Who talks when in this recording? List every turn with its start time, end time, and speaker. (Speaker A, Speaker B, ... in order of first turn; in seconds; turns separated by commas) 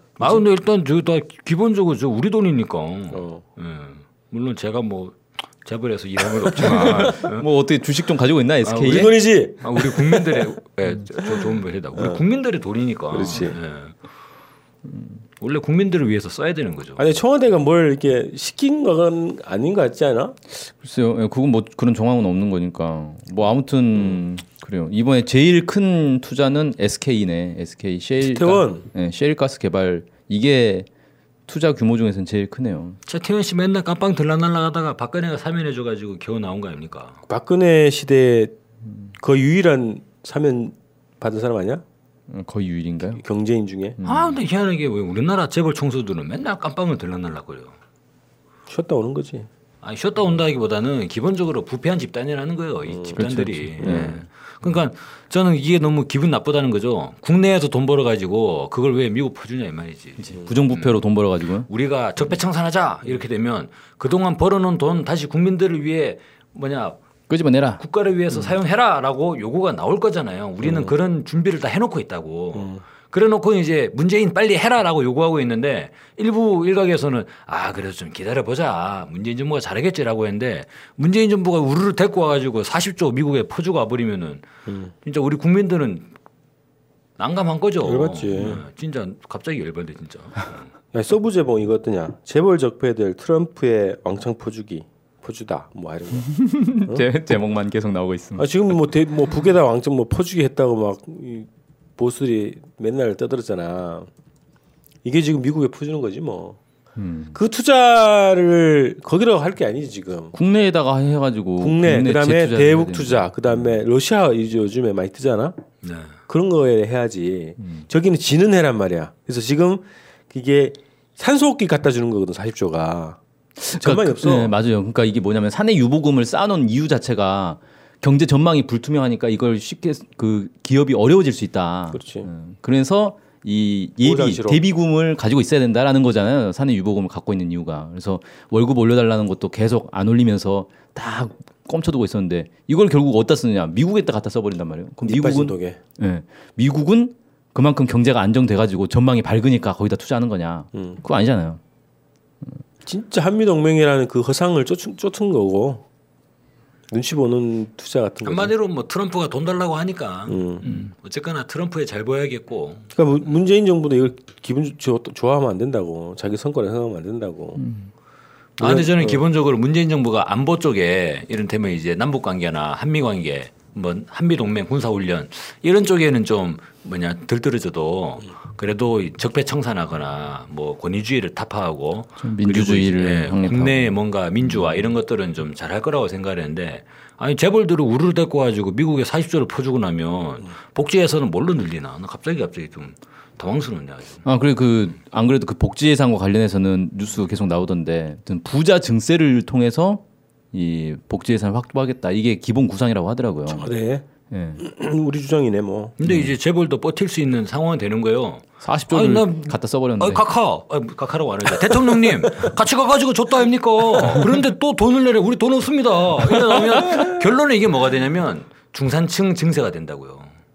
Speaker A: 0.2-7.5, Speaker B: 3.1-3.4, Speaker B: 6.5-7.2, Speaker C: 6.6-9.1, Speaker A: 8.6-13.9, Speaker B: 8.9-10.5, Speaker B: 11.2-12.2, Speaker B: 13.1-13.6, Speaker A: 15.4-17.1, Speaker B: 17.0-20.3, Speaker C: 20.5-30.9, Speaker B: 23.9-24.2, Speaker B: 28.2-28.9, Speaker C: 31.5-33.0, Speaker A: 33.0-37.2, Speaker B: 37.3-38.5, Speaker B: 39.2-41.8, Speaker C: 42.3-43.2, Speaker B: 43.1-44.0, Speaker C: 44.0-44.4, Speaker A: 44.0-47.7, Speaker B: 48.7-49.5, Speaker A: 49.8-61.0, Speaker B: 52.9-53.2, Speaker C: 53.1-54.2, Speaker B: 53.8-54.1, Speaker C: 60.2-61.7, Speaker A: 61.6-67.0, Speaker C: 67.3-67.8, Speaker A: 67.8-84.5, Speaker B: 72.5-72.8, Speaker B: 84.7-84.9, Speaker A: 85.0-86.1, Speaker A: 87.2-90.7, Speaker B: 87.8-88.6, Speaker B: 90.9-96.3, Speaker C: 96.1-98.8, Speaker B: 98.4-104.1, Speaker B: 105.0-106.6, Speaker C: 107.0-107.4, Speaker B: 107.3-110.3, Speaker C: 110.3-113.8, Speaker B: 111.6-115.5, Speaker A: 115.8-116.1, Speaker B: 116.3-123.2, Speaker C: 117.6-117.9, Speaker C: 123.6-151.6, Speaker B: 123.8-124.5, Speaker B: 131.9-132.3, Speaker B: 134.0-134.6, Speaker B: 145.0-145.8, Speaker B: 150.7-151.0, Speaker B: 152.8-155.8, Speaker B: 156.9-158.5, Speaker A: 158.2-163.3, Speaker B: 160.3-160.7, Speaker B: 162.9-167.6, Speaker C: 167.6-167.9, Speaker A: 168.6-194.2, Speaker B: 168.6-169.2, Speaker C: 182.2-184.9, Speaker C: 194.2-203.7, Speaker B: 203.5-204.1, Speaker C: 204.3-204.6, Speaker B: 204.6-205.9, Speaker A: 206.0-220.3, Speaker C: 206.1-206.3, Speaker C: 208.6-210.2